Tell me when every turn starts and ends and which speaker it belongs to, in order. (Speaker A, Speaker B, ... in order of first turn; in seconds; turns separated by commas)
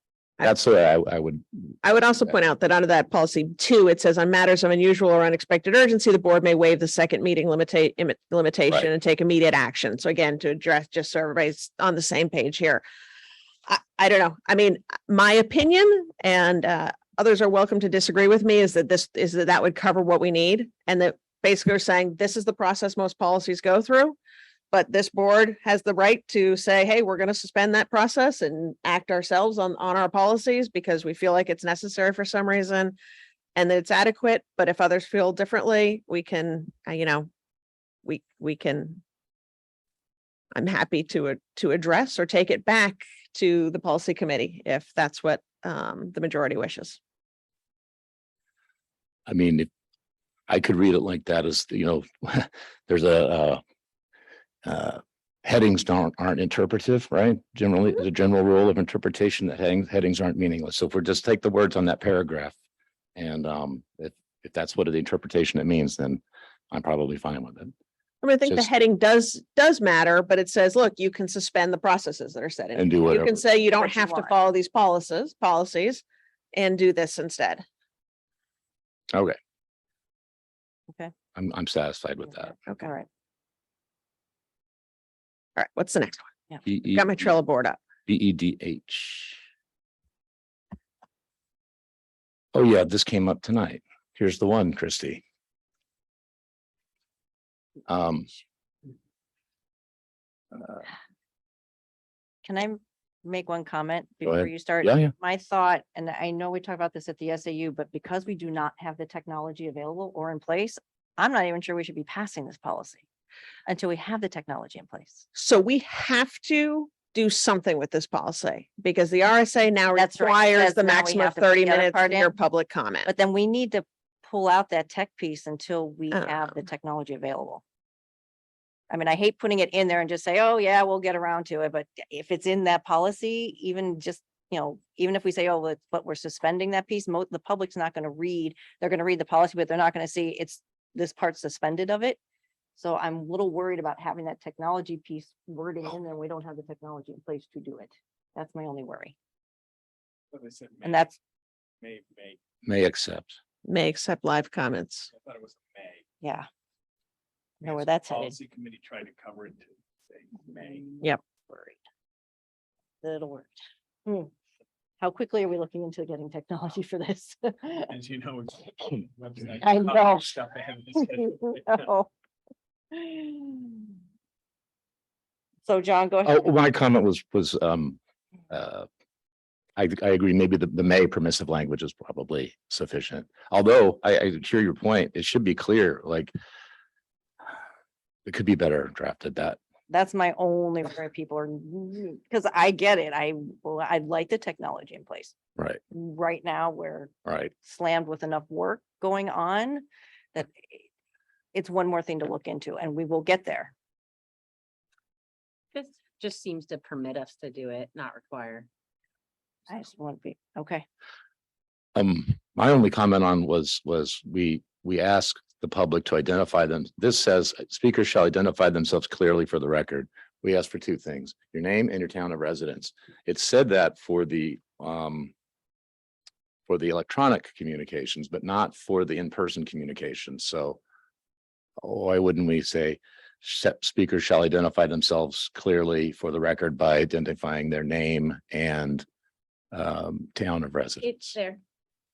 Speaker A: 0.4-1.4, Speaker B: 1.8-12.8, Speaker B: 13.7-24.2, Speaker B: 24.7-33.0, Speaker B: 33.5-37.3, Speaker B: 38.0-39.0, Speaker B: 40.5-47.0, Speaker A: 49.3-49.7, Speaker A: 50.5-53.6, Speaker A: 54.6-62.5, Speaker A: 63.1-67.7, Speaker B: 68.2-77.6, Speaker A: 72.7-73.4, Speaker C: 73.7-74.3, Speaker A: 81.3-82.5, Speaker C: 82.4-83.1, Speaker B: 85.5-86.3, Speaker A: 86.6-87.2, Speaker B: 86.9-87.8, Speaker A: 88.1-89.4, Speaker A: 92.5-95.2, Speaker A: 97.9-98.3, Speaker C: 102.4-113.0, Speaker A: 104.2-105.1, Speaker C: 113.7-115.2, Speaker B: 115.3-123.1, Speaker C: 119.9-122.3, Speaker C: 123.0-127.6, Speaker B: 126.1-126.4, Speaker C: 128.9-142.2, Speaker C: 142.8-149.1, Speaker D: 150.3-151.2, Speaker C: 150.8-151.1, Speaker D: 151.8-152.4, Speaker A: 152.6-153.4, Speaker B: 153.6-155.1, Speaker D: 155.1-156.0, Speaker C: 156.2-156.4, Speaker C: 157.6-158.3, Speaker D: 157.7-161.0, Speaker C: 161.4-161.8, Speaker C: 163.0-164.3, Speaker C: 165.0-167.9, Speaker D: 167.9-171.9, Speaker C: 169.6-170.2, Speaker C: 171.7-172.1, Speaker C: 172.9-173.9, Speaker C: 175.6-176.6, Speaker A: 176.2-178.0, Speaker A: 178.5-178.9, Speaker A: 179.8-186.3, Speaker A: 188.2-189.6, Speaker C: 189.9-195.3, Speaker A: 195.6-195.8, Speaker C: 195.9-197.1, Speaker A: 197.2-197.5, Speaker C: 197.6-200.8, Speaker C: 201.5-203.7, Speaker E: 205.7-208.7, Speaker C: 209.7-210.8, Speaker A: 211.9-225.3, Speaker A: 226.7-230.8, Speaker A: 231.8-239.0, Speaker A: 239.7-241.4, Speaker E: 241.0-241.6